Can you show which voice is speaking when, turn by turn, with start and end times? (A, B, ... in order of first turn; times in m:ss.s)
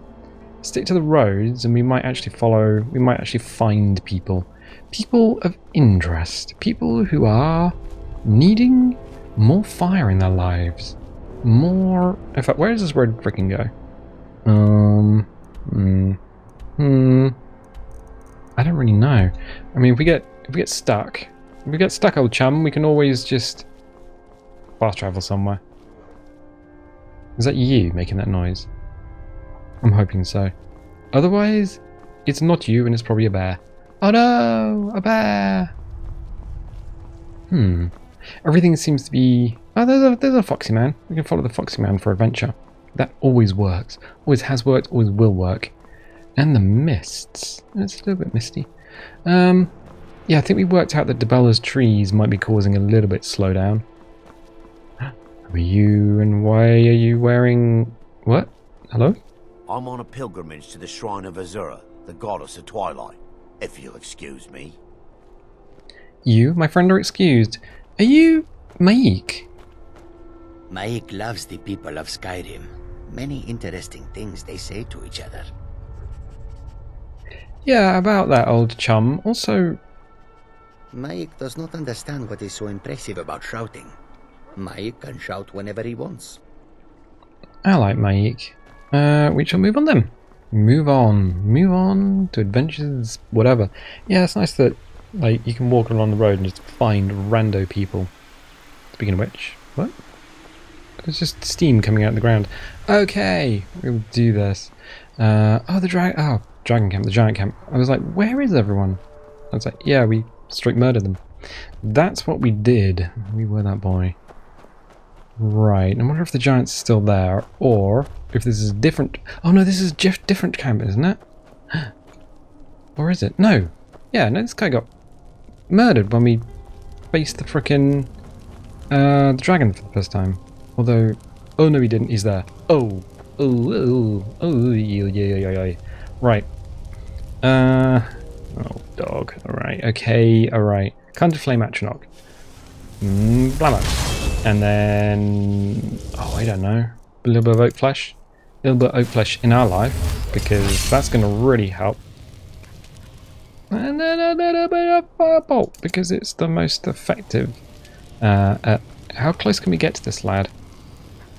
0:00.6-0:13.7 A
0:14.4-0:16.2 A
0:16.8-0:17.4 A
0:18.6-0:23.6 A
0:24.8-0:25.6 A
0:27.4-0:28.7 A
0:29.8-0:30.5 A
0:31.1-0:35.7 A
0:37.5-0:37.9 A
0:38.4-0:45.7 A
0:46.4-0:48.7 A
0:49.2-0:49.7 A
0:50.3-0:53.8 A
0:55.0-0:59.2 A
0:59.7-1:04.8 B
1:06.2-1:09.5 A
1:10.7-1:15.5 C
1:17.6-1:19.8 A
1:20.9-1:24.0 C
1:24.6-1:26.4 C
1:27.6-1:38.1 A
1:39.0-1:39.9 A
1:41.0-1:49.0 A
1:49.5-1:51.2 A
1:51.8-1:54.2 A
1:55.4-2:01.2 A
2:03.0-2:04.9 A
2:05.7-2:06.4 A
2:07.1-2:08.1 A
2:08.9-2:16.5 A
2:17.4-2:22.0 A
2:23.0-2:23.9 A
2:24.4-2:32.0 A
2:33.7-2:37.6 A
2:38.2-2:40.5 A